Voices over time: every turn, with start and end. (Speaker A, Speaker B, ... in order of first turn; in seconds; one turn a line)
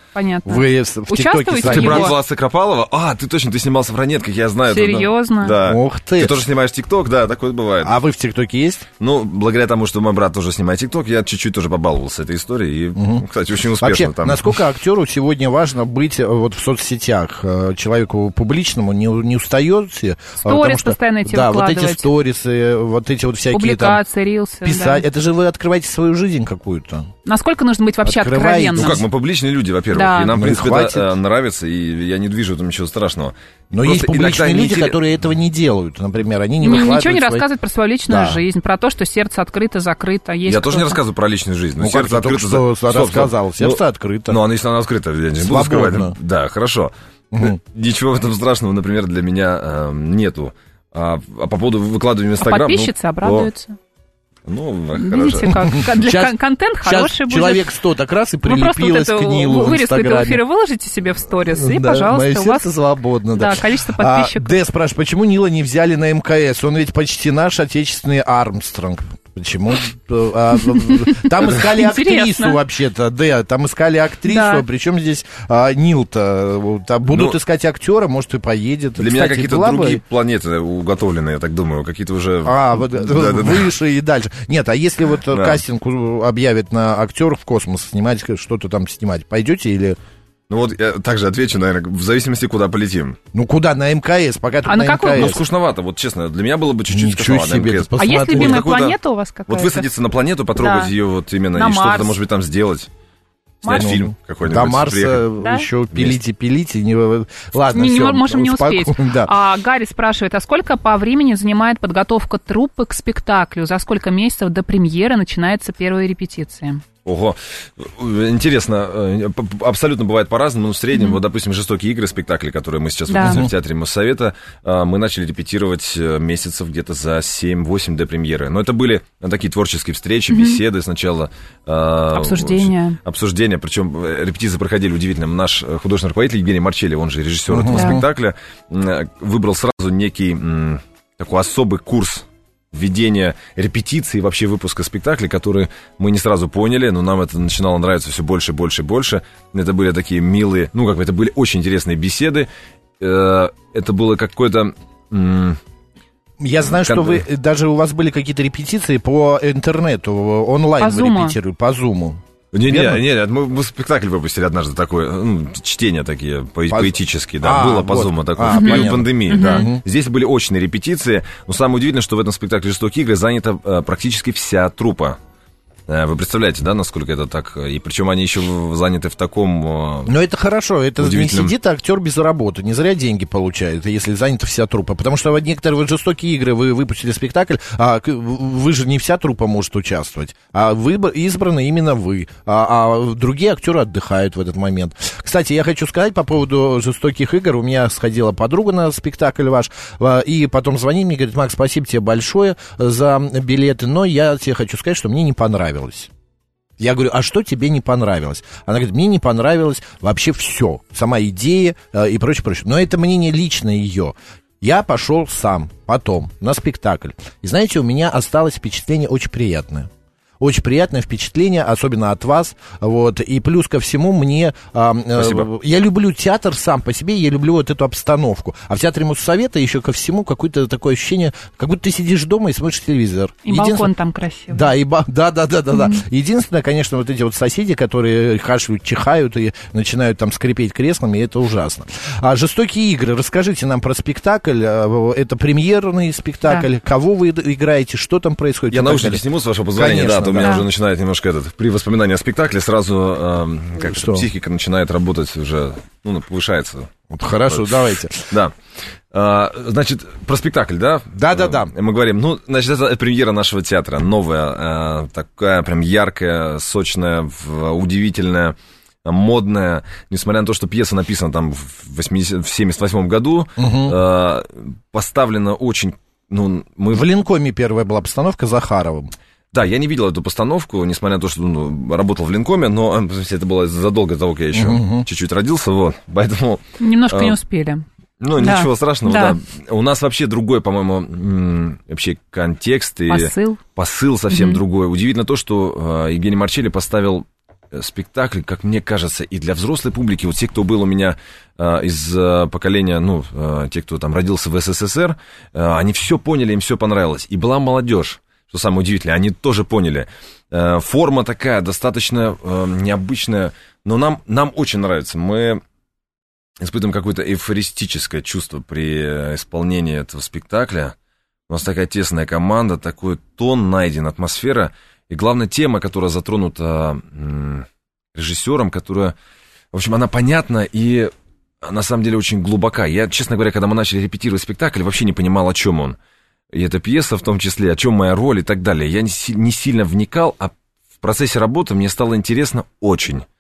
Speaker A: 0.1-2.1
Speaker B: 0.5-2.2
Speaker C: 1.6-8.0
Speaker A: 4.7-5.6
Speaker B: 5.6-6.4
Speaker B: 7.8-8.9
Speaker C: 9.0-14.6
Speaker B: 12.9-13.3
Speaker B: 13.8-24.0
Speaker A: 20.4-22.1
Speaker A: 23.5-25.1
Speaker B: 24.6-27.1
Speaker A: 27.3-29.0
Speaker B: 28.0-29.0
Speaker C: 28.8-35.0
Speaker A: 29.9-30.4
Speaker B: 30.3-31.1
Speaker B: 33.7-37.5
Speaker A: 36.6-41.0
Speaker B: 38.1-38.4
Speaker C: 40.5-53.5
Speaker B: 41.8-44.4
Speaker B: 45.4-46.2
Speaker A: 52.4-53.8
Speaker C: 54.5-55.6
Speaker A: 55.0-57.7
Speaker B: 55.7-60.4
Speaker A: 58.5-62.7
Speaker B: 61.5-80.0
Speaker A: 63.4-64.6
Speaker A: 70.8-72.6
Speaker A: 74.3-74.7
Speaker C: 77.1-77.4
Speaker C: 79.0-83.7
Speaker B: 82.5-90.0
Speaker C: 85.3-85.6
Speaker C: 90.5-93.2
Speaker B: 93.3-95.4
Speaker A: 94.7-95.4
Speaker C: 95.2-102.9
Speaker B: 96.9-98.7
Speaker A: 98.0-99.9
Speaker A: 100.6-100.9
Speaker A: 101.5-102.2
Speaker A: 103.6-103.9
Speaker C: 103.7-105.3
Speaker B: 103.7-109.3
Speaker A: 105.4-105.7
Speaker A: 107.7-116.8
Speaker C: 117.0-152.5
Speaker A: 120.9-121.2
Speaker A: 123.1-123.5
Speaker B: 123.2-123.5
Speaker A: 130.3-130.6
Speaker A: 132.1-133.0
Speaker B: 137.5-138.0
Speaker A: 137.7-138.0
Speaker C: 153.0-155.6
Speaker B: 156.4-163.0
Speaker C: 156.8-157.2
Speaker A: 160.8-161.4
Speaker C: 162.5-175.2
Speaker B: 166.7-169.8
Speaker A: 168.5-169.7
Speaker C: 175.9-180.1
Speaker B: 180.1-206.1
Speaker C: 181.0-181.5
Speaker B: 206.8-233.9
Speaker C: 225.2-225.5
Speaker A: 233.5-234.7
Speaker B: 234.5-249.2
Speaker A: 235.7-236.0
Speaker C: 248.7-256.9
Speaker B: 249.8-250.6
Speaker A: 250.4-250.6
Speaker B: 253.8-254.3
Speaker B: 257.1-258.3
Speaker C: 257.5-258.5
Speaker C: 259.1-277.1
Speaker B: 261.2-261.7
Speaker B: 273.6-274.0
Speaker B: 276.9-279.1
Speaker C: 279.5-287.4
Speaker B: 284.5-285.1
Speaker A: 286.8-287.9
Speaker C: 288.2-315.6
Speaker A: 288.4-289.4
Speaker A: 293.1-293.6
Speaker A: 294.3-294.6
Speaker C: 316.6-320.9
Speaker C: 321.5-329.1
Speaker C: 329.7-331.1
Speaker C: 331.6-336.0
Speaker C: 336.5-343.2